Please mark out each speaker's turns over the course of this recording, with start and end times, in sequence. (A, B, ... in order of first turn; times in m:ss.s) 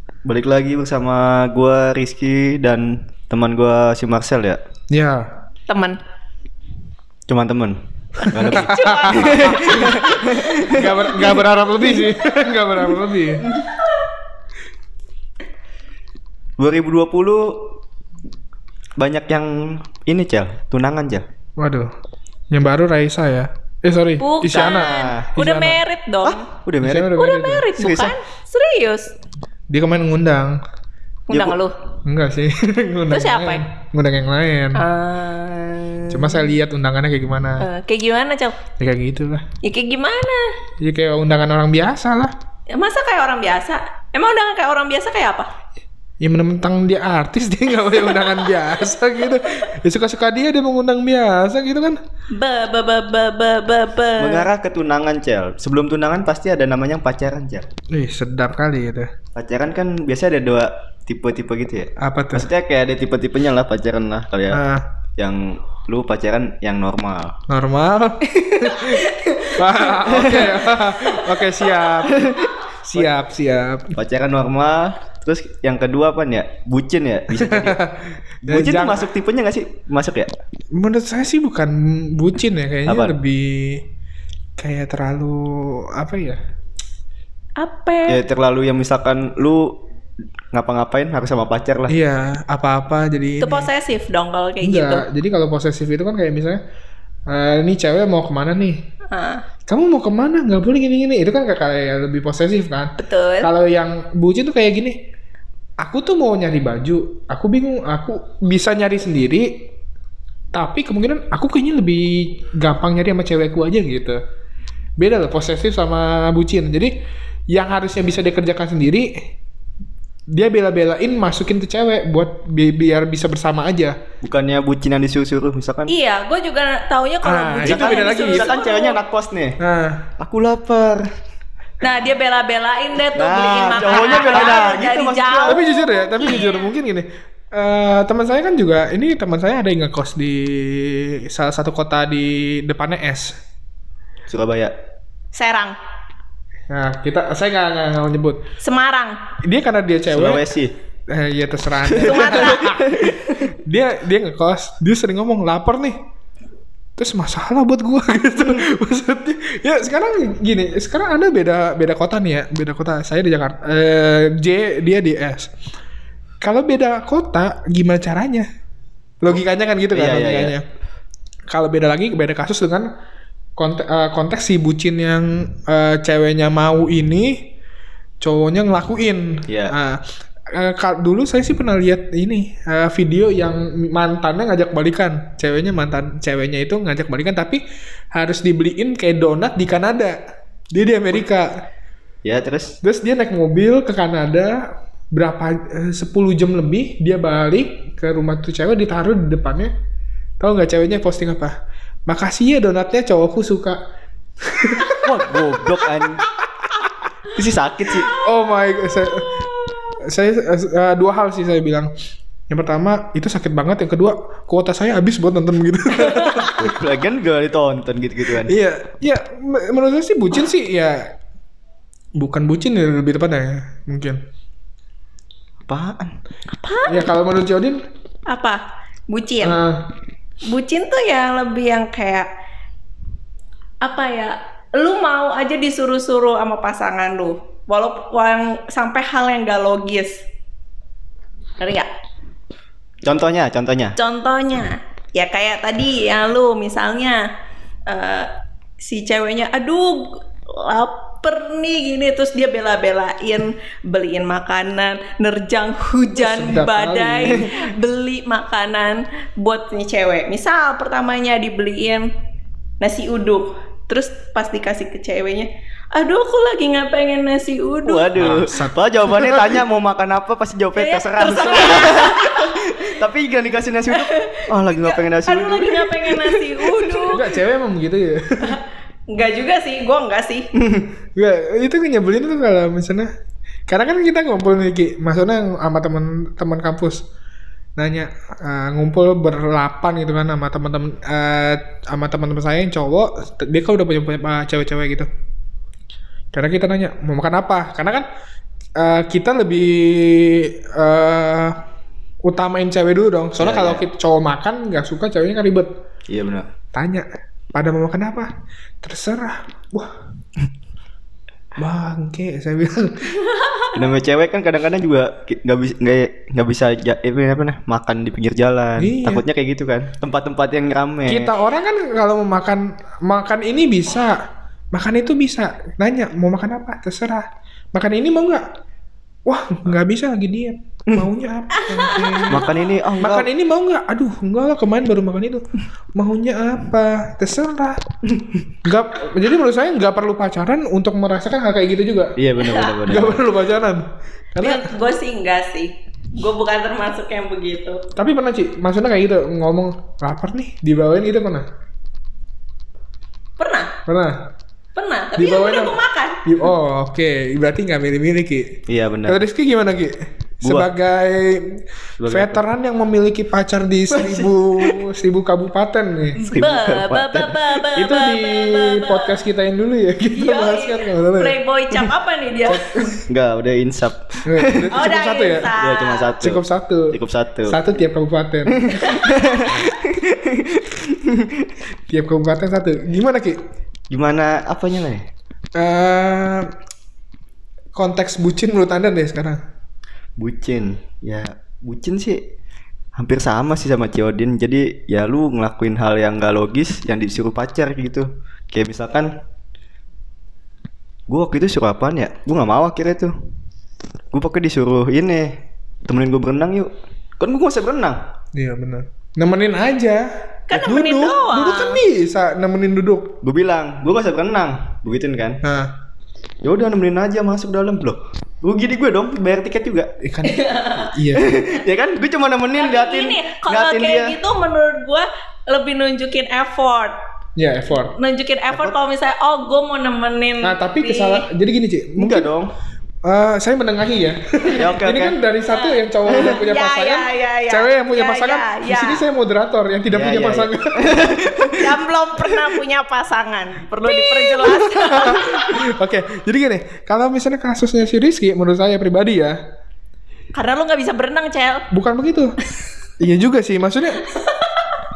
0:00.2-0:04.6 A
0:04.9-0:05.3 B
0:05.7-0:06.0 C
0:07.3-0:11.2 A
0:08.2-0:11.2 C
0:08.5-0:13.5 B
0:13.4-0:13.7 A
0:16.6-0:17.8 A
0:19.0-0:21.2 A
0:21.6-0:21.9 B
0:22.5-0:25.8 B
0:24.2-0:26.5 C
0:24.5-0:25.3 A
0:26.2-0:27.1 A
0:26.8-0:27.7 B
0:27.2-0:29.1 C
0:27.8-0:28.1 A
0:29.7-0:30.6 B
0:31.3-0:31.7 C
0:31.3-0:31.6 A
0:32.1-0:34.8 B
0:33.1-0:33.6 C
0:34.8-0:36.4 C
0:36.1-0:37.6 B
0:37.6-0:38.6 C
0:38.8-0:39.5 B
0:39.6-0:40.4 C
0:40.8-0:42.3 B
0:42.7-0:45.5 C
0:46.2-0:52.0 B
0:52.4-0:54.5 C
0:54.2-0:57.7 A
0:57.9-0:59.1 B
0:59.4-1:04.6 A
1:02.0-1:02.5 B
1:04.5-1:04.9 B
1:05.2-1:07.4 A
1:07.5-1:12.3 B
1:10.0-1:11.0 A
1:12.0-1:13.1 A
1:12.8-1:14.0 B
1:14.0-1:17.8 A
1:17.4-1:19.1 B
1:18.4-1:20.3 A
1:20.8-1:23.8 B
1:22.9-1:23.1 A
1:24.6-1:26.4 B
1:27.6-1:28.2 C
1:28.1-1:29.8 A
1:30.5-1:32.0 A
1:31.9-1:33.7 B
1:33.4-1:35.1 C
1:34.6-1:36.6 B
1:37.3-1:38.8 B
1:39.1-1:39.4 C
1:39.7-1:45.0 B
1:43.0-1:43.5 C
1:45.8-1:49.7 B
1:50.5-1:54.2 B
1:55.0-1:56.9 B
1:57.5-1:59.3 B
2:00.3-2:04.0 B
2:04.2-2:05.9 A
2:05.9-2:09.0 C
2:07.2-2:08.6 B
2:07.6-2:09.6 A
2:09.6-2:10.1 B
2:10.2-2:11.1 A
2:11.8-2:16.7 C
2:13.2-2:15.6 A
2:15.5-2:23.4 B
2:24.3-2:24.7 A
2:25.3-2:25.8 C
2:26.7-2:28.4 B
2:28.6-2:29.2 C
2:29.4-2:30.5 B
2:30.1-2:30.7 A
2:31.1-2:36.0 B
2:31.9-2:33.3 A
2:32.0-2:32.7 C
2:37.0-2:45.5 B
2:46.4-2:48.5 B
2:49.2-2:50.6 B
2:49.9-2:50.6 A
2:51.5-2:52.9 B
2:53.6-2:57.5 B
2:58.2-3:07.6 B
2:59.5-2:59.8 A
3:08.1-3:10.2 B
3:10.7-3:11.6 B
3:12.2-3:12.8 A
3:12.8-3:19.7 B
3:20.4-3:21.6 B
3:22.1-3:23.8 B
3:24.4-3:25.2 B
3:25.0-3:26.3 A
3:27.3-3:28.1 A
3:28.0-3:29.5 B
3:30.0-3:31.9 B
3:32.5-3:36.7 B
3:36.0-3:36.5 C
3:36.5-3:38.5 A
3:38.4-3:41.2 B
3:42.2-3:44.2 B
3:45.7-3:46.2 A
3:46.5-3:47.1 C
3:46.9-3:47.8 B
3:48.3-3:49.6 C
3:49.4-3:49.9 B
3:50.5-3:52.3 C
3:53.8-4:00.2 C
4:01.6-4:01.9 C
4:03.1-4:04.0 A
4:04.0-4:07.2 C
4:07.9-4:08.3 C
4:08.8-4:22.1 C
4:16.2-4:17.5 B
4:22.8-4:28.1 C
4:27.8-4:37.0 A
4:28.2-4:29.5 B
4:30.8-4:33.0 C
4:33.9-4:37.2 C
4:37.1-4:38.6 B
4:39.1-4:40.5 C
4:41.2-4:43.1 B
4:43.7-4:47.0 B
4:47.8-4:55.1 B
4:56.3-4:58.1 B
4:58.8-5:01.6 B
5:02.2-5:05.7 B
5:03.4-5:03.8 A
5:06.1-5:06.5 A
5:06.7-5:08.3 B
5:08.8-5:09.9 B
5:11.6-5:13.3 B
5:13.7-5:21.3 A
5:18.8-5:19.2 B
5:21.1-5:28.4 B
5:29.3-5:37.8 B
5:31.6-5:32.5 C
5:32.3-5:33.3 A
5:38.6-5:42.2 B
5:42.2-5:43.2 A
5:42.8-5:44.7 B
5:44.4-5:47.8 C
5:48.0-5:51.5 B
5:53.4-5:53.7 C
5:53.9-5:54.3 B
5:54.8-5:56.2 C
5:55.2-6:06.2 B
5:58.7-5:59.2 A
6:00.4-6:00.7 A
6:02.0-6:02.4 A
6:03.9-6:04.8 A
6:06.2-6:09.2 C
6:06.3-6:07.5 A
6:07.8-6:11.4 B
6:10.1-6:12.9 C
6:12.4-6:13.0 B
6:13.1-6:14.9 A
6:14.2-6:15.5 B
6:14.7-6:16.1 C
6:15.6-6:17.6 A
6:16.2-6:18.9 B
6:18.5-6:21.5 A
6:21.9-6:23.4 B
6:23.9-6:25.1 A
6:25.6-6:26.5 B
6:27.7-6:29.4 B
6:30.2-6:32.2 A
6:33.0-6:39.1 A
6:41.1-6:43.1 A
6:44.1-6:45.4 A
6:45.9-6:48.0 A
6:48.3-6:53.1 B
6:50.5-6:51.8 C
6:53.2-6:55.4 A
6:55.4-6:55.7 B
6:56.4-6:59.9 A
7:00.0-7:01.3 B
7:00.2-7:00.9 C
7:01.1-7:04.2 A
7:02.5-7:07.0 C
7:07.4-7:07.9 B
7:07.9-7:11.3 C
7:08.5-7:08.8 A
7:10.4-7:12.3 B
7:12.0-7:12.5 A
7:13.0-7:21.3 B
7:14.5-7:15.2 A
7:15.5-7:19.0 C
7:16.1-7:16.4 A
7:19.9-7:21.7 A
7:21.5-7:25.6 C
7:24.0-7:29.4 B
7:30.3-7:31.7 C
7:31.7-7:32.4 B
7:33.0-7:34.0 B
7:34.0-7:34.7 C